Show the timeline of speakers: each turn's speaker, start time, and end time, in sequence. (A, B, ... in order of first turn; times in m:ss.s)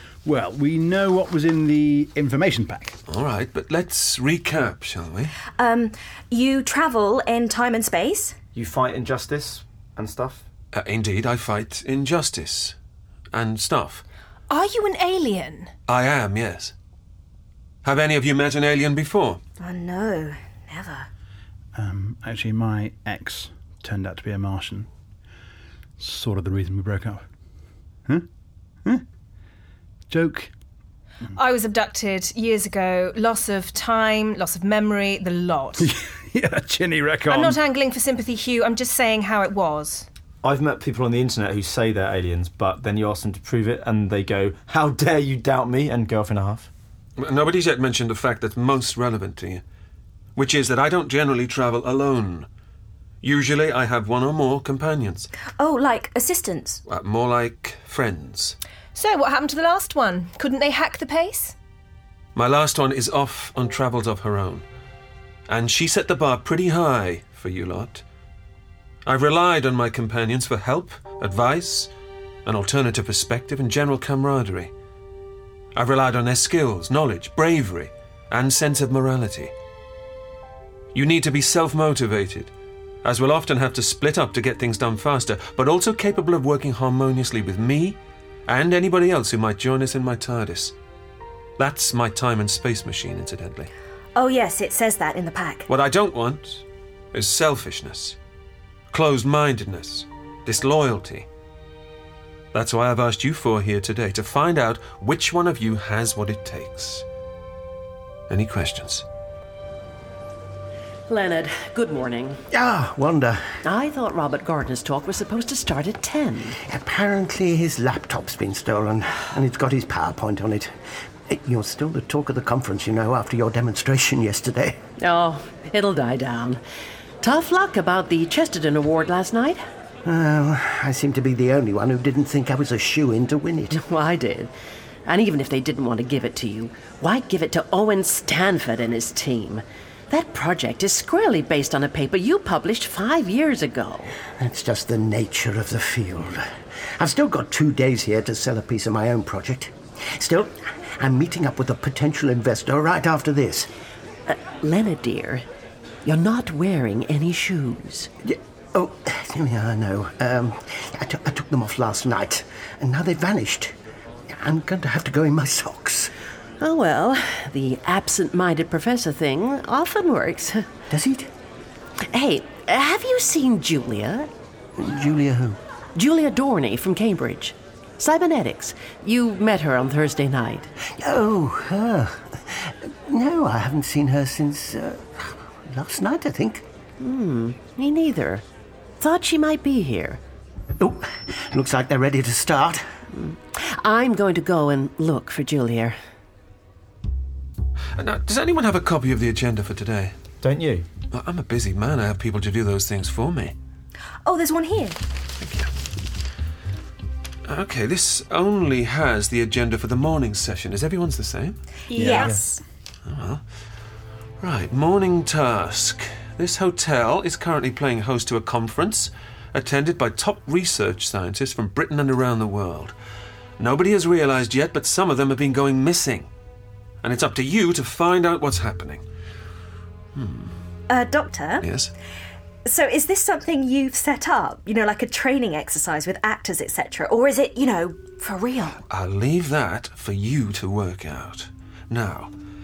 0:00.2-0:03.0 A
0:03.1-0:05.3 B
0:05.6-0:08.3 C
0:08.6-0:10.5 D
0:10.7-0:12.8 B
0:13.3-0:14.0 B
0:14.5-0:15.7 E
0:15.9-0:16.7 B
0:17.8-0:19.4 B
0:19.6-0:21.1 C
0:21.8-0:24.9 A
0:26.0-0:27.2 A
0:30.1-0:30.5 A
0:31.4-0:35.9 E
0:35.8-0:37.6 A
0:37.3-0:40.1 E
0:40.4-0:46.7 D
0:47.2-0:49.6 B
0:50.4-0:52.5 B
0:53.2-0:55.3 B
0:55.6-0:56.8 C
0:56.9-0:58.6 B
0:59.0-1:01.6 E
1:02.4-1:04.6 B
1:05.5-1:08.0 B
1:09.0-1:11.9 B
1:12.4-1:14.7 B
1:15.8-1:19.5 B
1:20.9-1:22.5 B
1:23.0-1:30.8 B
1:31.6-1:33.7 B
1:34.2-1:35.6 C
1:35.7-1:38.2 B
1:38.9-1:41.3 B
1:42.5-1:47.0 B
1:48.3-1:49.0 B
1:51.1-1:52.4 F
1:52.5-1:53.4 G
1:53.6-1:56.6 F
1:56.6-2:00.7 G
2:01.3-2:04.8 G
2:05.0-2:06.6 F
2:07.2-2:09.6 F
2:10.0-2:13.8 G
2:13.7-2:14.5 F
2:15.0-2:24.1 F
2:24.4-2:26.5 G
2:27.0-2:33.7 G
2:34.3-2:35.4 F
2:36.0-2:38.1 F
2:38.2-2:43.7 G
2:44.3-2:46.1 G
2:46.6-2:50.7 F
2:50.9-2:51.3 G
2:52.1-2:54.3 F
2:54.8-2:55.6 G
2:56.0-3:00.7 F
3:01.0-3:06.6 G
3:07.0-3:08.4 F
3:09.0-3:10.2 F
3:10.8-3:12.8 G
3:13.1-3:16.0 F
3:18.0-3:20.2 B
3:20.4-3:20.9 D
3:21.1-3:23.6 B
3:24.2-3:25.0 C
3:25.4-3:25.7 B
3:27.5-3:31.6 B
3:31.9-3:32.6 C
3:31.9-3:32.4 A
3:33.1-3:33.4 B
3:34.4-3:43.0 B
3:43.6-3:46.3 B
3:47.0-3:49.0 B
3:50.2-3:50.6 B
3:50.9-3:51.6 C
3:51.6-3:51.9 B
3:52.7-3:58.8 C
3:58.9-4:02.3 B